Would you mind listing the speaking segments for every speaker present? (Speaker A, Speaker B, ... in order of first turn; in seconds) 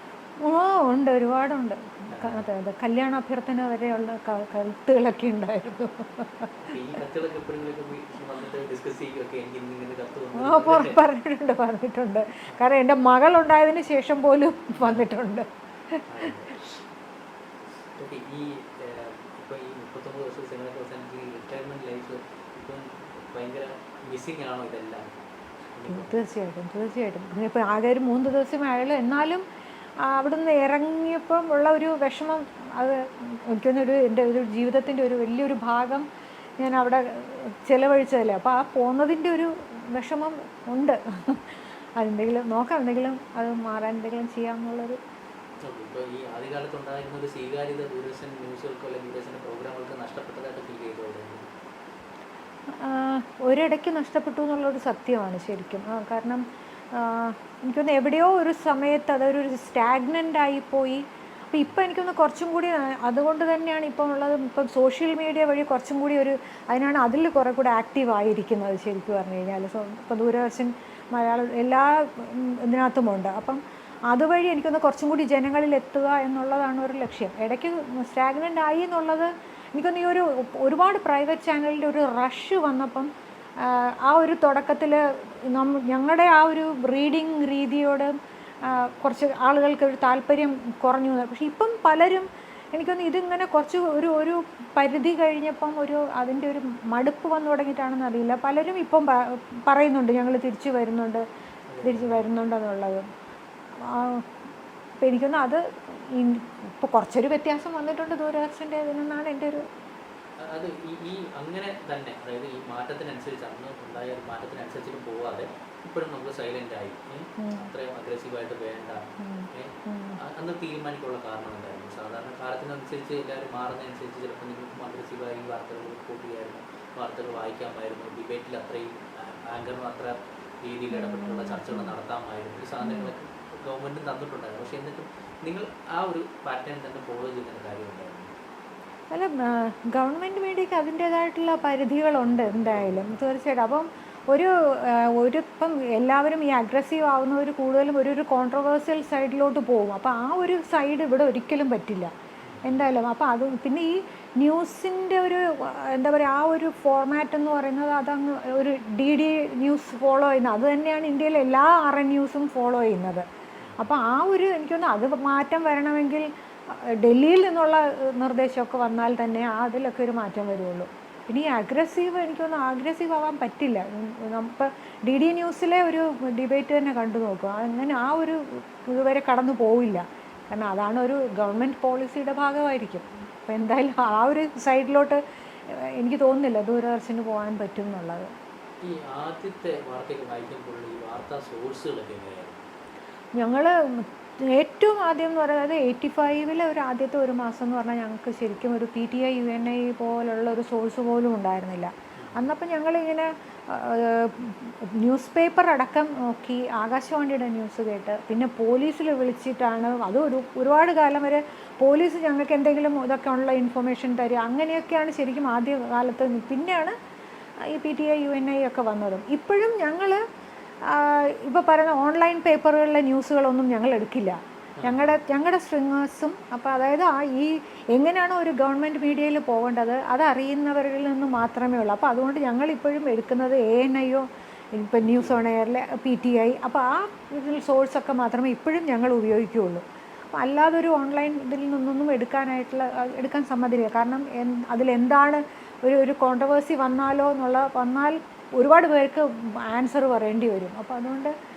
Speaker A: 0.4-6.5, 10.4-16.0, 25.9-29.4, 30.0-36.1, 36.6-45.0, 52.8-56.4, 57.0-88.1, 88.7-101.2, 101.8-103.1, 103.8-104.3, 105.0-109.6, 117.4-117.7, 119.2-120.2, 130.9-131.9, 132.8-133.1, 139.1-152.1, 152.6-163.3, 163.8-188.3, 193.4-216.9, 217.6-220.2, 220.8-251.3
Speaker B: 2.1-2.5, 6.6-11.0, 14.8-15.0, 16.1-16.6, 18.0-25.1, 25.8-26.2, 45.6-51.5, 88.6-88.9, 101.7-102.2, 110.4-138.3, 142.3-143.2, 152.4-152.9, 188.8-192.6, 202.2-202.5, 224.8-225.2, 235.0-235.4